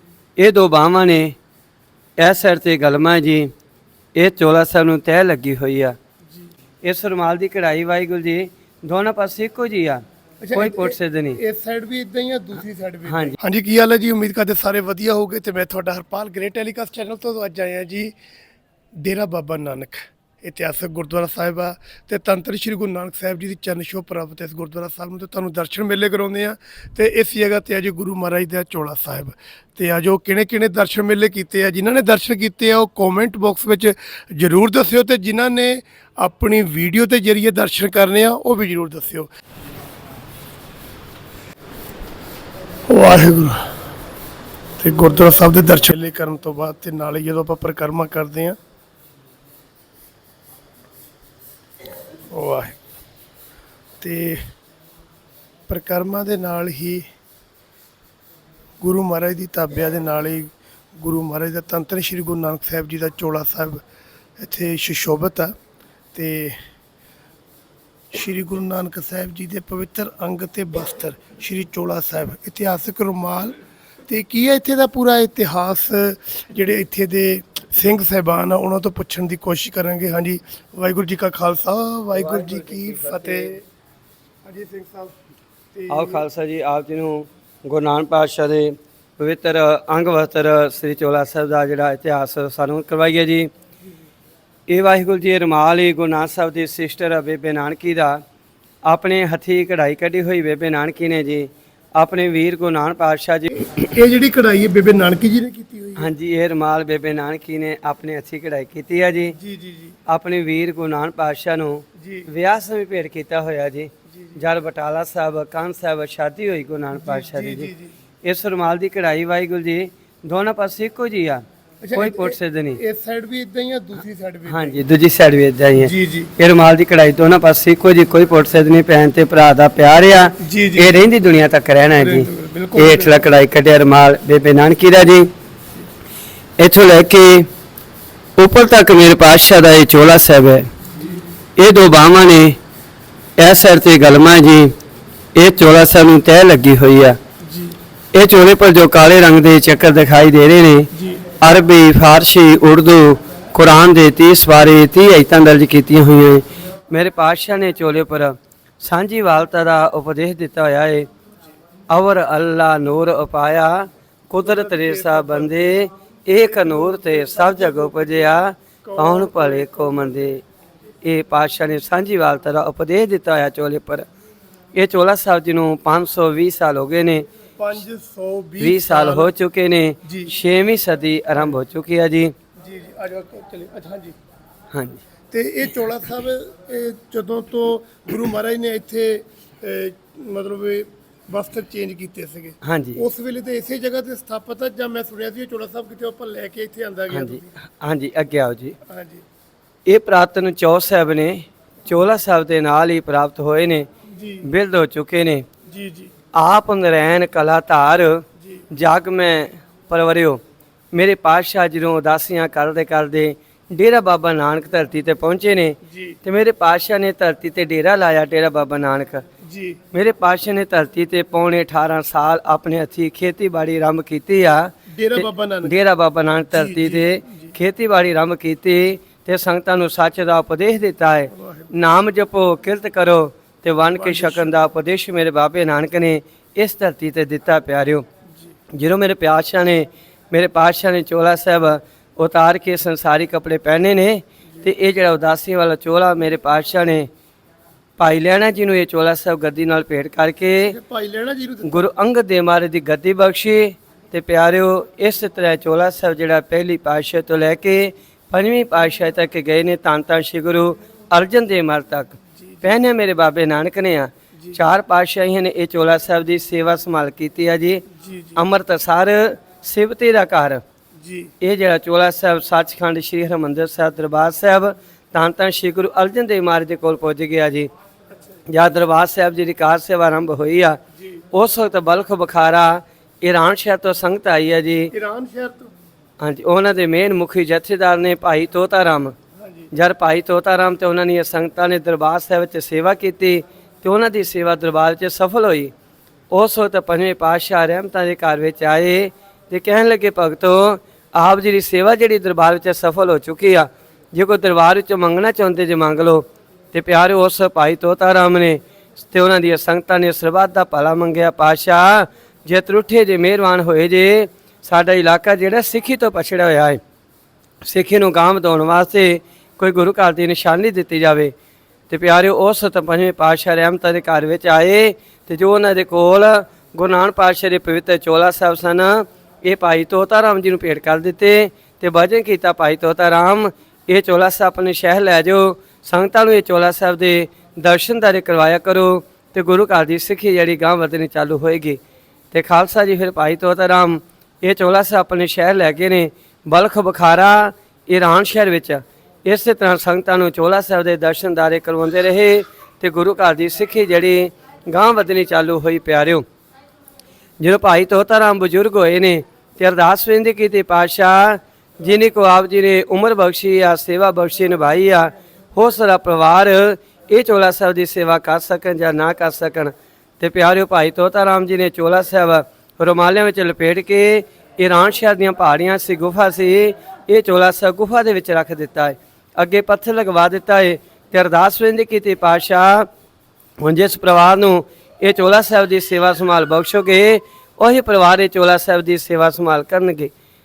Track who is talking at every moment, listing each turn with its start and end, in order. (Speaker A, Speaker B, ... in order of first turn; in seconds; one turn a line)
Speaker A: 0.4-1.4
Speaker A: 2.2-3.5
Speaker A: 4.2-6.0
Speaker A: 6.8-10.0
Speaker B: 10.4-18.1
Speaker A: 10.5-11.4
Speaker A: 13.1-13.4
Speaker B: 19.0-39.3
Speaker B: 42.9-43.6
Speaker B: 44.8-48.6
Speaker B: 52.3-52.8
Speaker B: 54.0-54.4
Speaker B: 55.7-57.0
Speaker B: 58.8-63.8
Speaker B: 64.4-65.5
Speaker B: 66.1-66.5
Speaker B: 68.1-73.5
Speaker B: 74.1-83.6
Speaker A: 82.1-83.6
Speaker B: 84.4-85.2
Speaker B: 85.7-86.2
Speaker A: 85.9-93.5
Speaker A: 94.7-98.2
Speaker A: 98.8-103.6
Speaker B: 103.6-106.1
Speaker A: 106.0-109.3
Speaker B: 109.4-110.0
Speaker A: 110.1-117.7
Speaker B: 112.0-112.3
Speaker B: 114.1-114.4
Speaker B: 116.9-117.9
Speaker A: 118.2-121.4
Speaker B: 121.8-124.8
Speaker A: 121.9-122.8
Speaker A: 124.5-135.3
Speaker B: 125.8-126.3
Speaker B: 130.4-131.0
Speaker B: 132.0-133.2
Speaker A: 136.6-137.5
Speaker A: 138.4-140.7
Speaker A: 141.6-142.6
Speaker A: 143.4-144.7
Speaker A: 145.3-147.2
Speaker B: 147.4-147.8
Speaker A: 148.1-150.9
Speaker B: 150.9-151.2
Speaker A: 151.4-161.1
Speaker A: 161.9-170.4
Speaker B: 164.4-165.6
Speaker B: 166.4-170.3
Speaker A: 171.0-174.1
Speaker A: 174.8-177.2
Speaker B: 177.6-179.3
Speaker A: 178.6-182.3
Speaker B: 180.0-180.3
Speaker B: 182.6-184.2
Speaker A: 184.7-185.0
Speaker B: 185.3-197.5
Speaker A: 192.6-193.0
Speaker A: 197.1-198.8
Speaker B: 198.9-199.2
Speaker A: 199.9-203.9
Speaker B: 204.1-204.4
Speaker A: 204.4-205.4
Speaker B: 205.7-206.1
Speaker A: 206.3-210.4
Speaker A: 210.9-219.2
Speaker B: 215.9-216.2
Speaker B: 219.4-219.8
Speaker A: 219.9-238.0
Speaker B: 224.9-225.8
Speaker B: 226.5-227.5
Speaker B: 231.3-231.7
Speaker B: 233.9-234.6
Speaker A: 238.7-247.1
Speaker A: 248.0-250.8
Speaker B: 250.6-251.8
Speaker A: 251.6-267.8
Speaker B: 262.4-262.8
Speaker B: 267.9-268.4
Speaker A: 268.4-270.6
Speaker B: 271.0-271.3
Speaker A: 271.4-277.7
Speaker A: 278.5-280.8
Speaker A: 281.3-284.9
Speaker B: 284.9-285.7
Speaker A: 286.2-289.1
Speaker B: 289.4-289.7
Speaker A: 289.7-295.7
Speaker A: 296.3-316.8
Speaker A: 317.6-321.3
Speaker A: 321.9-341.8
Speaker A: 342.3-356.2
Speaker A: 357.4-382.9
Speaker A: 383.6-390.1